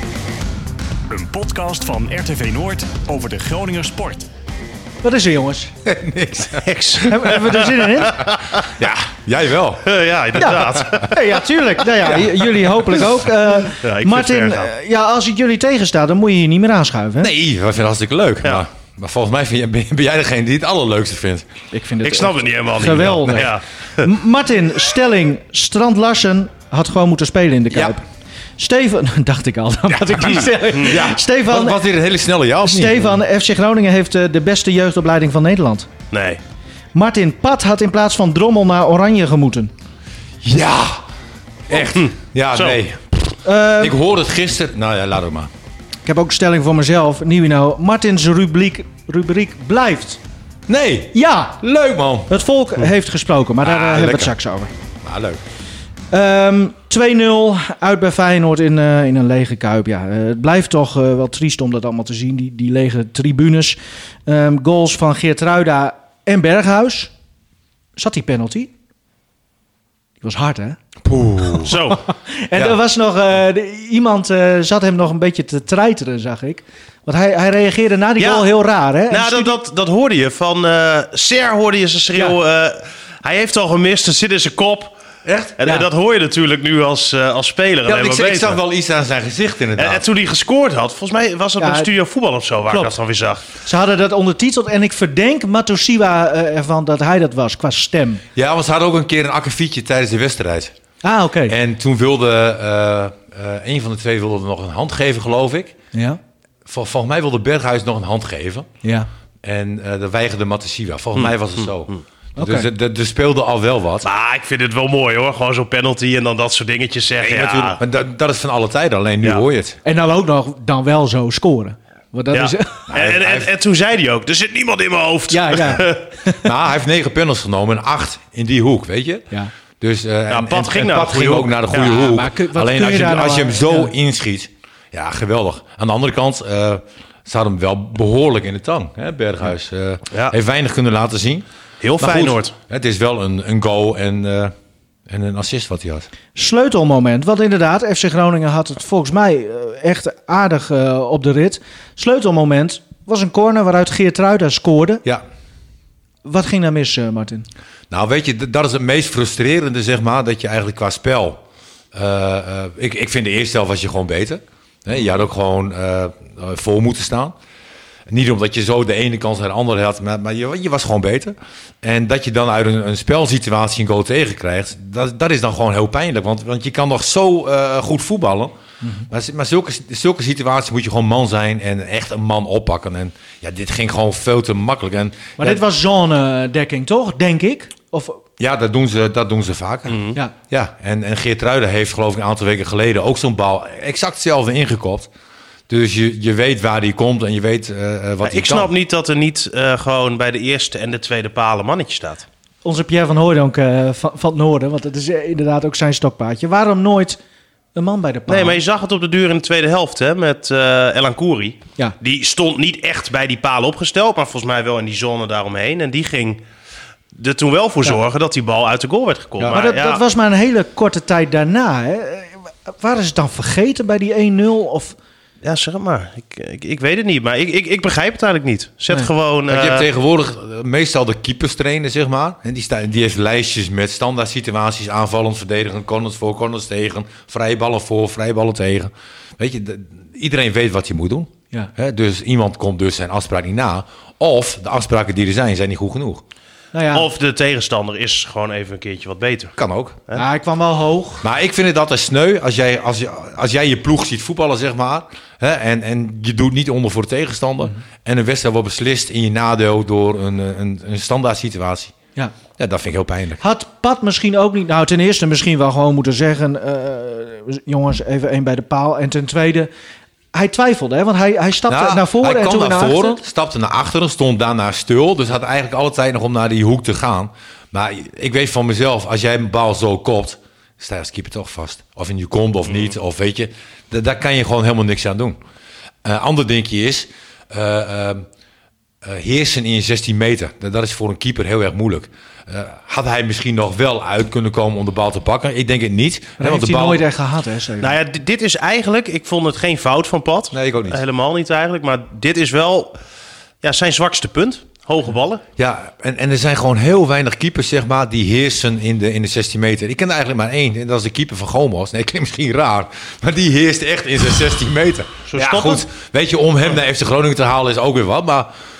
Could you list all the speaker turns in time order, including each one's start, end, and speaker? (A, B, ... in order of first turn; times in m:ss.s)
0:01.1-0:04.2 A
0:05.0-0:05.7 B
0:05.8-0:07.5 C
0:06.5-0:08.7 D
0:07.0-0:08.3 B
0:08.6-0:11.0 C
0:09.8-0:11.2 D
0:10.4-0:17.3 B
0:13.7-0:14.7 D
0:17.2-0:21.5 C
0:21.7-0:28.0 B
0:22.0-0:24.0 D
0:28.6-0:31.8 B
0:29.9-0:33.2 C
0:32.6-0:35.9 B
0:36.1-0:36.4 D
0:36.9-0:39.7 B
0:40.4-0:41.0 C
0:41.7-0:45.5 C
0:41.9-0:42.8 D
0:43.4-0:44.0 B
0:46.0-0:50.2 B
0:50.7-0:52.3 C
0:51.1-0:51.6 B
0:52.3-0:54.7 B
0:53.6-0:54.3 C
0:55.0-0:55.4 C
0:56.1-1:07.1 B
1:08.0-1:08.7 B
1:10.2-1:10.8 B
1:11.0-1:11.8 C
1:11.6-1:12.0 D
1:12.3-1:19.6 B
1:18.2-1:18.5 D
1:19.1-1:24.9 D
1:25.3-1:25.8 C
1:25.6-1:28.6 D
1:27.8-1:30.0 C
1:29.8-1:33.4 D
1:31.6-1:31.9 B
1:32.7-1:32.9 B
1:33.6-1:38.2 B
1:38.3-1:40.7 C
1:41.0-1:41.6 B
1:41.5-1:45.8 C
1:45.9-1:46.2 B
1:46.6-1:48.7 C
1:48.8-1:49.1 B
1:49.4-1:54.1 C
1:52.4-1:52.7 B
1:54.0-1:57.8 D
1:57.2-1:59.8 C
1:59.8-2:02.9 B
2:02.3-2:06.0 D
2:02.9-2:03.5 C
2:05.3-2:06.4 B
2:06.4-2:09.3 C
2:09.8-2:21.4 C
2:10.3-2:12.1 D
2:11.8-2:13.9 B
2:21.8-2:22.5 D
2:22.0-2:24.5 C
2:25.1-2:26.1 C
2:26.3-2:35.0 B
2:36.2-2:37.4 B
2:37.9-2:41.4 C
2:41.9-2:47.3 C
2:48.1-2:58.5 C
2:59.1-3:05.6 C
3:05.4-3:08.2 B
3:08.4-3:15.1 C
3:09.9-3:10.2 D
3:15.7-3:18.7 C
3:18.2-3:22.2 D
3:22.6-3:27.2 B
3:27.8-3:28.6 B
3:28.3-3:36.4 D
3:37.1-3:40.0 D
3:39.4-3:39.6 C
3:39.5-3:45.0 B
3:45.4-3:49.8 D
3:49.5-4:06.2 C
4:06.7-4:07.0 B
4:06.9-4:09.5 D
4:09.6-4:10.0 C
4:10.1-4:11.2 B
4:11.2-4:21.9 C
4:22.6-4:23.4 C
4:23.4-4:29.7 B
4:30.3-4:33.2 B
4:31.7-4:45.4 C
4:46.0-4:48.3 C
4:49.0-4:57.0 C
4:56.4-4:57.9 B
4:57.8-5:03.0 D
5:00.5-5:01.0 C
5:03.6-5:05.4 D
5:05.6-5:18.5 C
5:15.3-5:15.8 D